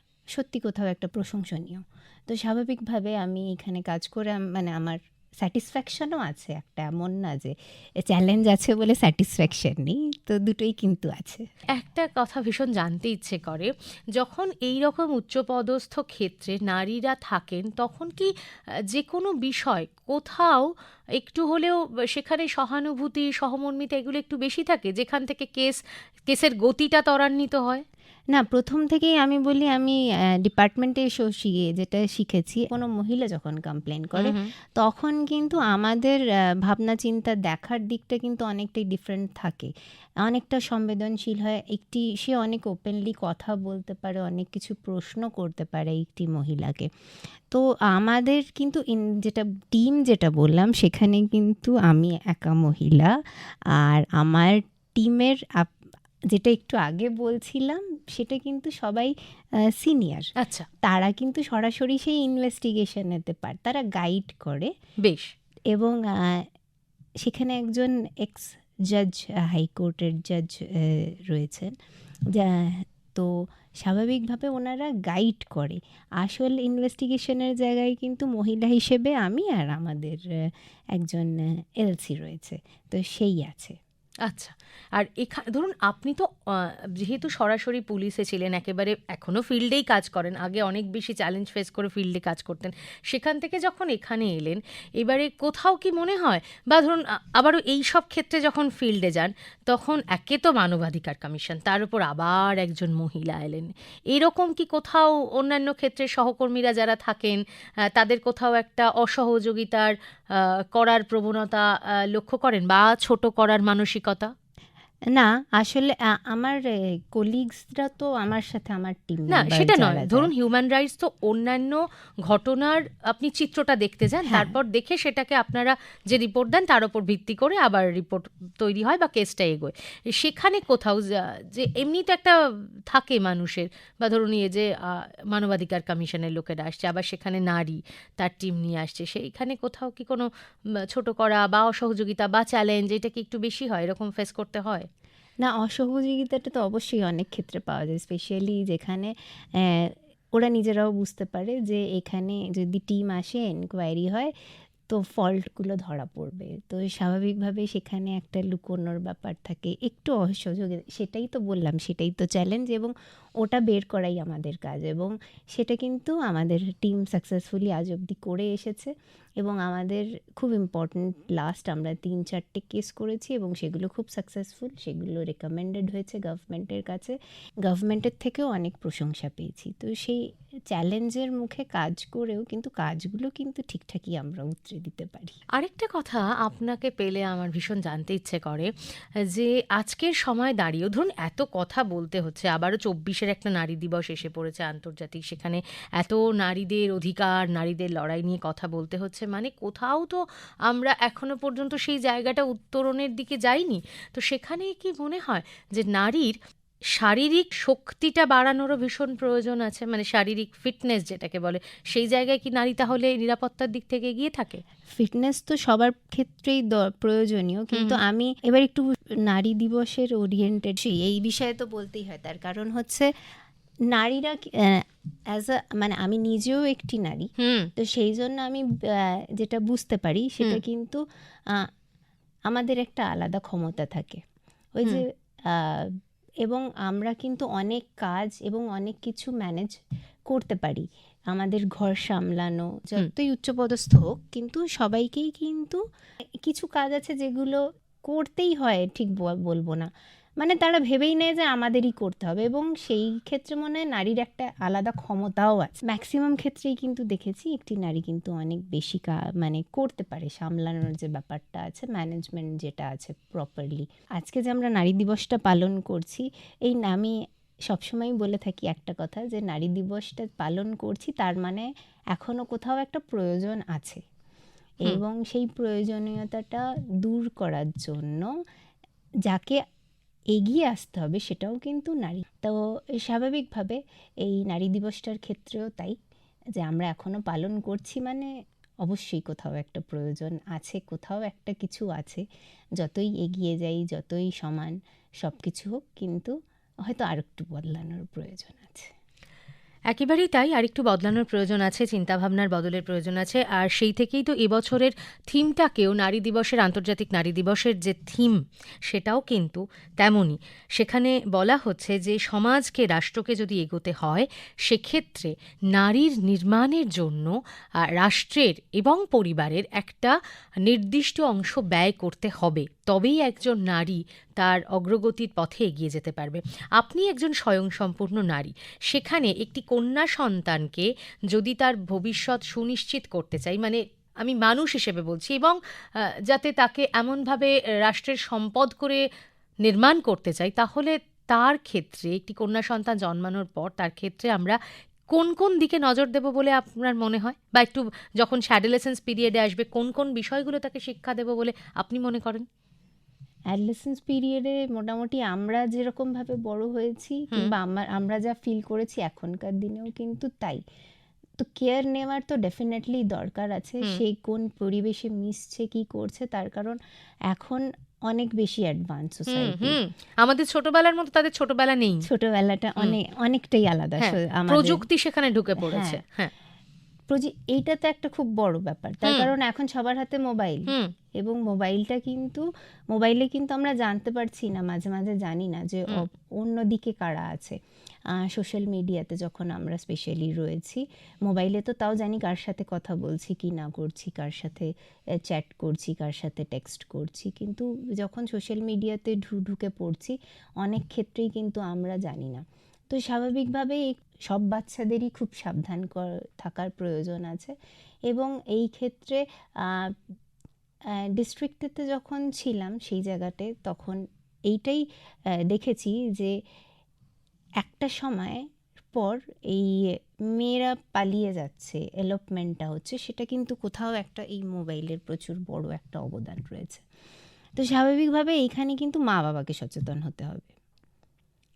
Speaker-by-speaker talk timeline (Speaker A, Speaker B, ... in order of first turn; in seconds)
Speaker A: 0.3-11.5, 28.3-39.7, 40.2-46.9, 47.5-53.1, 53.7-55.7, 56.3-60.3, 60.8-64.7, 65.7-66.5, 67.2-71.8, 72.3-83.8, 115.1-120.3, 124.3-124.5, 145.4-154.3, 154.9-185.4, 214.9-223.1, 223.9-231.7, 232.5-234.2, 234.8-245.8, 246.4-267.2, 267.7-274.0, 274.8-278.3, 279.3-279.6, 280.3-286.0, 286.6-288.3, 288.8-292.2, 292.8-298.9, 353.5-360.6, 361.4-366.8, 367.3-369.8, 372.1-374.9, 375.6-376.0, 377.1-387.6, 388.1-394.7, 395.2-407.6, 408.1-410.0, 410.9-414.9, 415.5-416.4, 417.6-426.8, 427.6-430.5
Speaker B: 11.7-18.3, 18.9-27.8, 34.2-34.5, 60.4-60.7, 65.0-65.3, 84.3-107.4, 107.9-114.3, 119.3-140.3, 140.8-144.9, 185.6-188.7, 189.3-206.4, 206.9-214.6, 217.7-218.0, 227.4-227.7, 299.9-339.0, 339.6-344.6, 345.1-352.5, 369.3-372.1, 374.0-376.3, 380.7-380.9